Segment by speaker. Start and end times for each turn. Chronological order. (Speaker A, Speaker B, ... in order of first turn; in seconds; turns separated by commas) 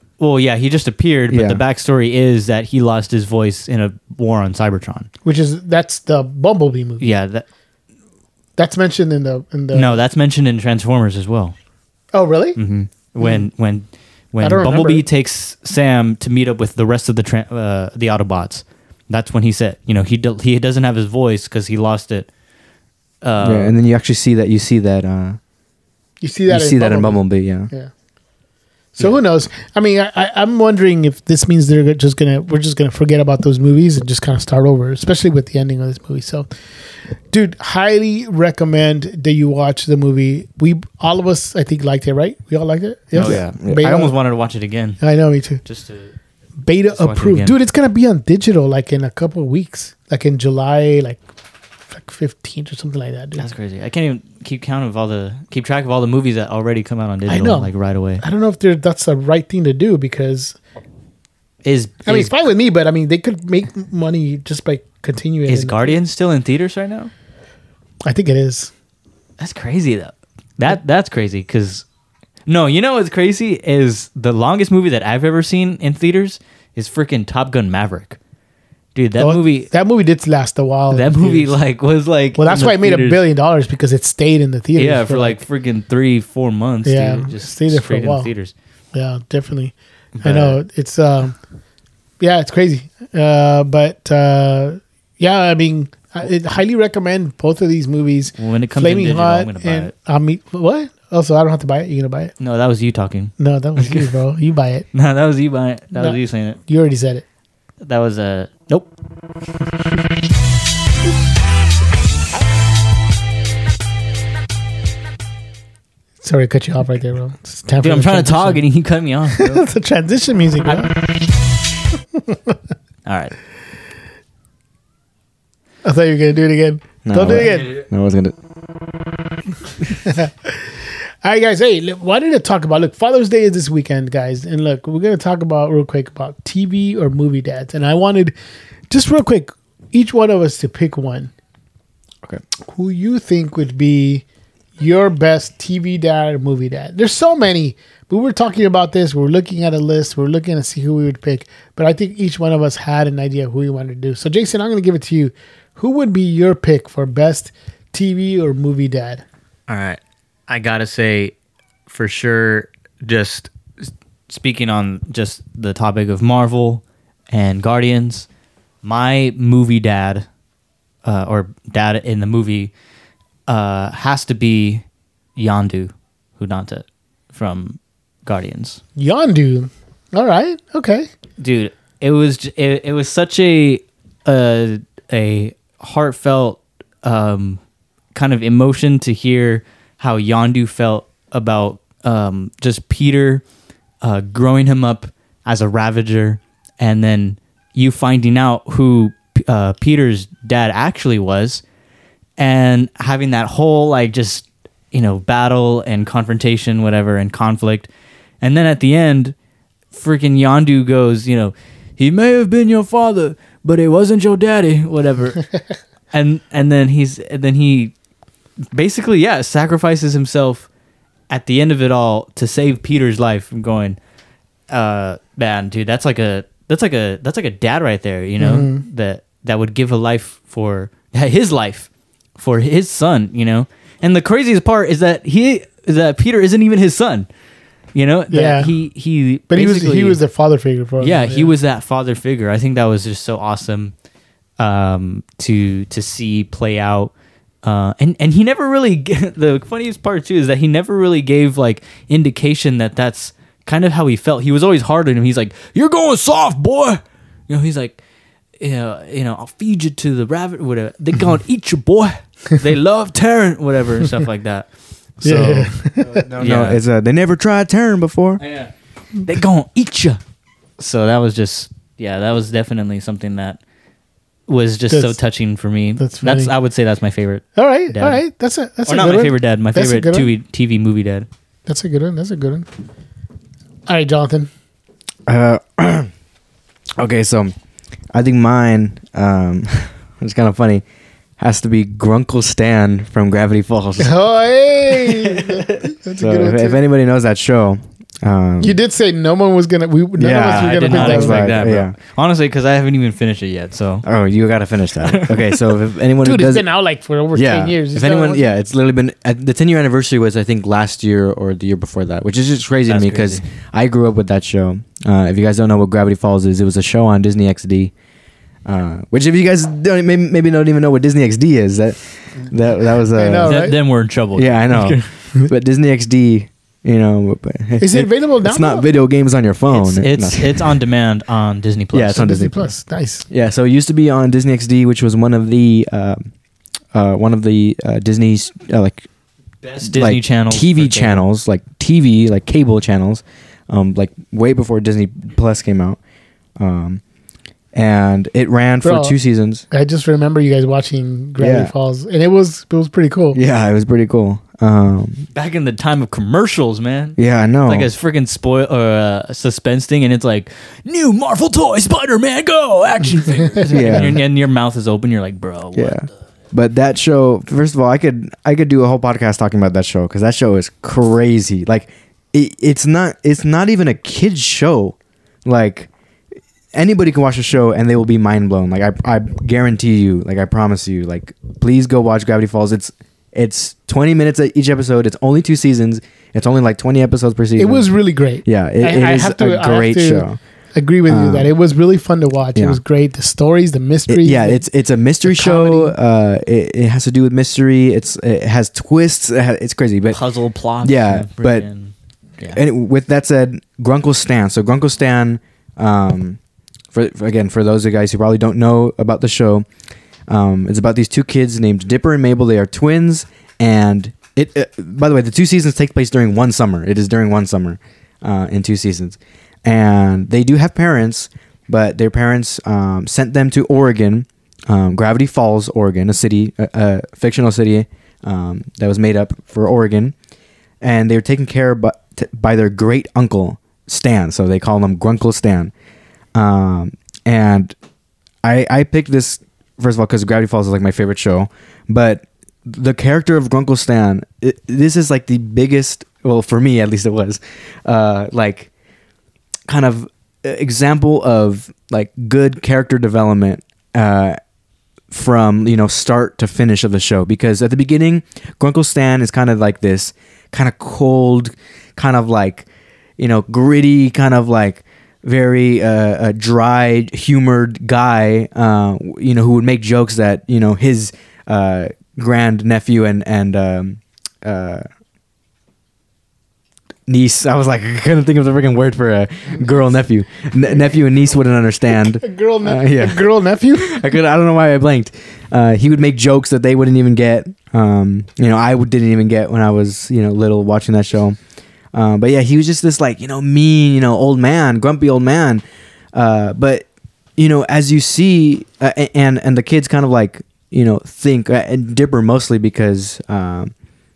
Speaker A: 0.2-5.1, Speaker B: 1.3-1.6, Speaker C: 5.2-7.0, Speaker A: 7.0-7.4, Speaker C: 8.6-10.0, Speaker A: 9.7-11.5, Speaker C: 12.1-12.6, Speaker A: 12.6-22.3, Speaker C: 13.2-13.4, Speaker C: 14.4-15.0, Speaker A: 23.2-23.7, Speaker B: 23.4-25.4, Speaker C: 26.2-27.9, Speaker B: 26.5-27.7, Speaker C: 29.0-36.5, Speaker C: 37.3-44.1, Speaker A: 43.1-45.0, Speaker B: 43.1-43.9, Speaker C: 45.0-45.6, Speaker A: 45.6-46.1, Speaker C: 46.6-51.2, Speaker A: 46.9-47.5, Speaker C: 51.9-53.5, Speaker A: 53.4-58.2, Speaker C: 57.3-60.6, Speaker A: 61.6-62.3, Speaker C: 62.0-66.0, Speaker A: 65.5-67.1, Speaker C: 68.0-68.7, Speaker A: 69.4-71.8, Speaker A: 72.5-78.2, Speaker A: 78.9-79.7, Speaker C: 79.2-81.5, Speaker A: 80.9-83.2, Speaker C: 82.3-85.4, Speaker A: 84.8-88.5, Speaker C: 86.8-88.3, Speaker C: 88.9-91.4, Speaker A: 90.2-90.6, Speaker C: 92.2-102.3, Speaker A: 98.4-99.9, Speaker A: 102.4-104.1, Speaker C: 103.4-104.9, Speaker A: 104.9-106.6, Speaker C: 106.0-107.2, Speaker A: 107.8-108.9, Speaker C: 116.2-118.6, Speaker A: 117.8-119.6, Speaker C: 119.3-120.9, Speaker C: 122.2-122.5, Speaker A: 123.0-123.3, Speaker C: 125.8-127.8, Speaker B: 127.0-128.3, Speaker C: 130.0-138.3, Speaker C: 138.9-141.3, Speaker C: 142.6-144.2, Speaker C: 144.8-159.2, Speaker A: 159.7-161.3, Speaker A: 161.9-168.3, Speaker A: 168.8-170.2, Speaker A: 171.0-172.7, Speaker A: 173.5-174.8, Speaker A: 175.3-178.8, Speaker C: 179.0-181.1, Speaker A: 181.4-187.6, Speaker A: 188.1-193.4, Speaker A: 194.0-201.6, Speaker A: 202.4-207.9, Speaker A: 208.4-209.3, Speaker A: 209.9-215.4, Speaker A: 216.1-217.9, Speaker A: 218.7-220.7, Speaker A: 221.3-224.0, Speaker A: 224.7-237.3, Speaker C: 228.4-228.8, Speaker A: 237.9-240.2, Speaker C: 238.3-238.7, Speaker C: 239.5-241.5, Speaker A: 241.0-243.9, Speaker A: 244.6-247.1, Speaker A: 247.6-258.0, Speaker A: 258.6-264.7, Speaker A: 265.2-265.7, Speaker C: 265.2-266.2, Speaker B: 266.1-268.4, Speaker A: 266.4-266.8, Speaker A: 268.4-268.7, Speaker A: 269.2-270.2, Speaker A: 270.8-273.6, Speaker A: 274.5-278.2, Speaker C: 274.9-275.1, Speaker C: 276.0-276.5, Speaker C: 277.5-280.3, Speaker A: 278.9-281.3, Speaker C: 281.7-282.6, Speaker C: 283.9-284.5, Speaker B: 285.3-286.1, Speaker B: 287.0-287.5, Speaker B: 288.1-290.8, Speaker B: 291.4-294.1, Speaker C: 294.0-296.8, Speaker A: 295.3-295.7, Speaker B: 296.2-298.8, Speaker C: 298.6-301.6, Speaker B: 300.2-301.9, Speaker A: 300.4-304.1, Speaker B: 304.0-306.6, Speaker A: 305.0-305.5, Speaker C: 306.2-308.4, Speaker B: 307.3-317.9, Speaker A: 312.9-313.4, Speaker B: 318.6-323.6, Speaker C: 323.1-323.8, Speaker A: 323.4-325.1, Speaker B: 324.3-330.7, Speaker C: 327.8-328.9, Speaker A: 329.7-332.3, Speaker B: 331.9-332.6, Speaker C: 332.1-333.2, Speaker B: 333.3-336.3, Speaker B: 336.9-339.1, Speaker A: 339.6-341.2, Speaker B: 339.8-346.0, Speaker B: 346.6-347.0, Speaker B: 347.7-349.6, Speaker C: 348.8-349.1, Speaker C: 349.7-353.4, Speaker B: 351.4-351.7, Speaker B: 353.3-355.3, Speaker A: 355.3-366.1, Speaker B: 357.2-357.9, Speaker C: 363.4-364.0, Speaker B: 363.7-364.2, Speaker B: 365.7-375.9, Speaker B: 376.7-387.9, Speaker C: 387.6-394.6, Speaker B: 388.4-390.4, Speaker B: 391.1-391.5, Speaker B: 392.5-392.8, Speaker B: 394.1-400.2, Speaker C: 395.2-395.9, Speaker A: 400.1-402.6, Speaker B: 400.8-401.7, Speaker B: 402.5-406.4, Speaker B: 406.9-409.6, Speaker B: 410.3-430.1, Speaker B: 430.8-435.7, Speaker B: 436.3-437.7, Speaker B: 438.4-448.7, Speaker B: 449.7-454.4, Speaker B: 455.1-462.7, Speaker B: 463.2-474.8, Speaker B: 477.1-491.4, Speaker C: 482.2-484.1, Speaker B: 491.9-495.6, Speaker B: 496.1-503.7